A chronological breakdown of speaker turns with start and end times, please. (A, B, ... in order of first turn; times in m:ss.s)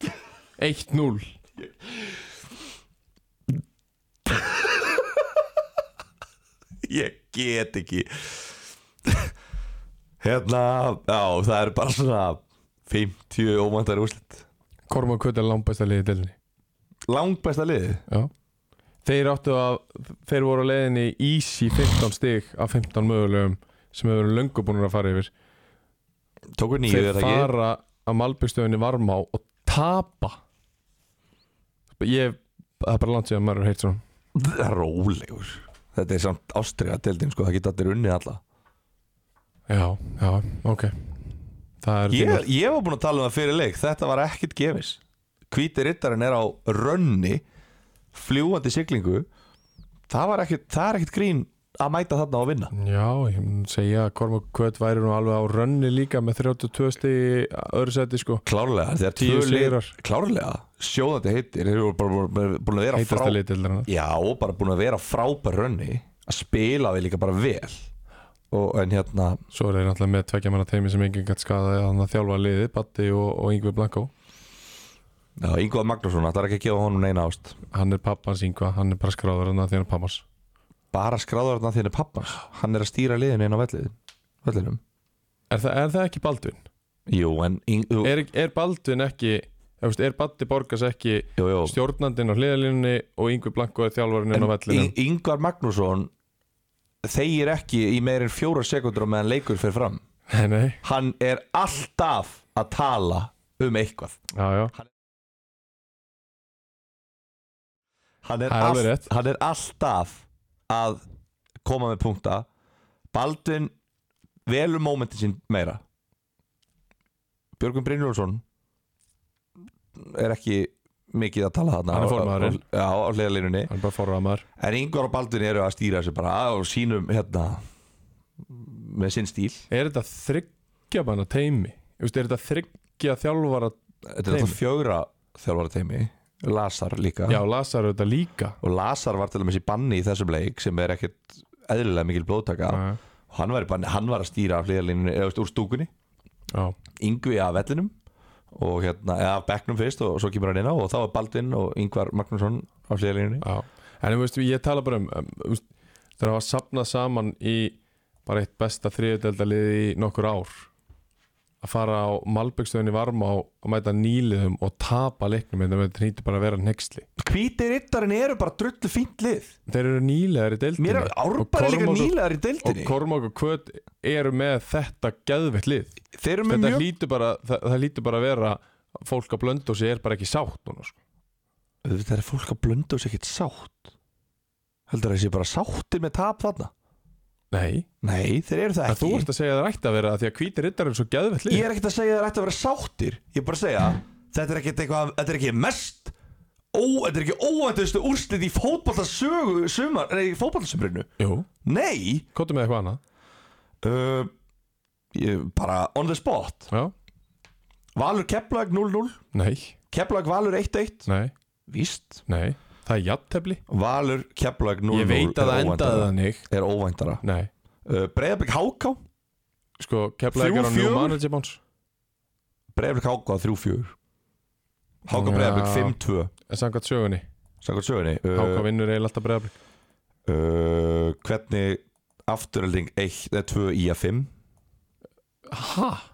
0:00.6-0:01.4 A
0:04.3-0:05.4 B
0:06.8-0:09.3 B
0:10.2-0:14.4 B
0:14.9-0:16.4 A
0:17.1-0:18.0 B
0:19.0-0:25.3 A
0:26.6-0:27.5 B
0:26.9-0:30.4 A
0:31.9-0:34.0 A
0:34.4-0:38.4 B
0:39.7-0:41.1 A
0:41.8-0:42.5 A
0:42.1-0:47.4 B
0:48.1-0:49.3 B
0:50.1-0:52.7 B
0:52.7-0:58.4 A
0:58.5-1:07.9 B
0:59.2-1:00.0 A
1:02.9-1:03.9 A
1:08.5-1:09.4 B
1:09.5-1:14.1 A
1:15.4-1:17.6 B
1:17.7-1:20.2 A
1:20.9-1:24.8 B
1:25.5-1:26.6 A
1:27.1-1:28.1 B
1:28.0-1:34.9 A
1:31.4-1:31.8 B
1:34.3-1:36.1 B
1:37.0-1:40.0 B
1:40.3-1:40.8 A
1:40.8-1:44.2 B
1:44.3-1:44.7 A
1:48.2-1:51.0 B
1:48.5-1:49.1 A
1:51.6-1:52.5 B
1:53.1-1:53.7 B
1:54.5-1:55.8 B
1:57.6-1:58.4 B
2:00.0-2:03.7 B
2:01.9-2:02.6 A
2:03.7-2:04.4 A
2:04.6-2:07.6 B
2:08.5-2:09.7 B
2:09.7-2:14.6 A
2:14.1-2:17.4 B
2:17.3-2:18.6 A
2:18.6-2:25.9 B
2:22.7-2:23.0 A
2:27.0-2:27.9 B
2:28.5-2:33.4 B
2:33.4-2:35.6 A
2:36.2-2:40.7 A
2:41.6-2:47.1 A
2:47.2-2:49.6 B
2:49.7-3:01.0 A
2:50.8-2:53.0 B
2:56.2-2:56.9 B
3:01.8-3:03.9 B
3:04.9-3:06.7 B
3:07.5-3:07.9 A
3:08.0-3:09.3 B
3:08.9-3:11.7 A
3:11.5-3:16.1 B
3:16.7-3:21.1 B
3:21.2-3:21.5 A
3:21.6-3:22.3 B
3:22.3-3:23.0 A
3:23.8-3:24.3 B
3:25.1-3:26.7 B
3:28.0-3:29.2 B
3:29.3-3:29.8 A
3:29.9-3:31.1 B
3:31.1-3:31.3 A
3:31.7-3:32.2 B
3:32.3-3:33.6 A
3:33.7-3:37.2 B
3:34.9-3:36.5 A
3:37.2-3:37.5 A
3:37.8-3:39.0 B
3:39.8-3:41.6 A
3:40.3-3:41.2 B
3:42.7-3:43.9 B
3:45.1-3:46.3 B
3:45.1-3:46.0 A
3:46.5-3:47.2 A
3:47.6-3:48.7 B
3:48.3-3:49.6 A
3:50.3-3:54.3 B
3:55.5-3:56.1 A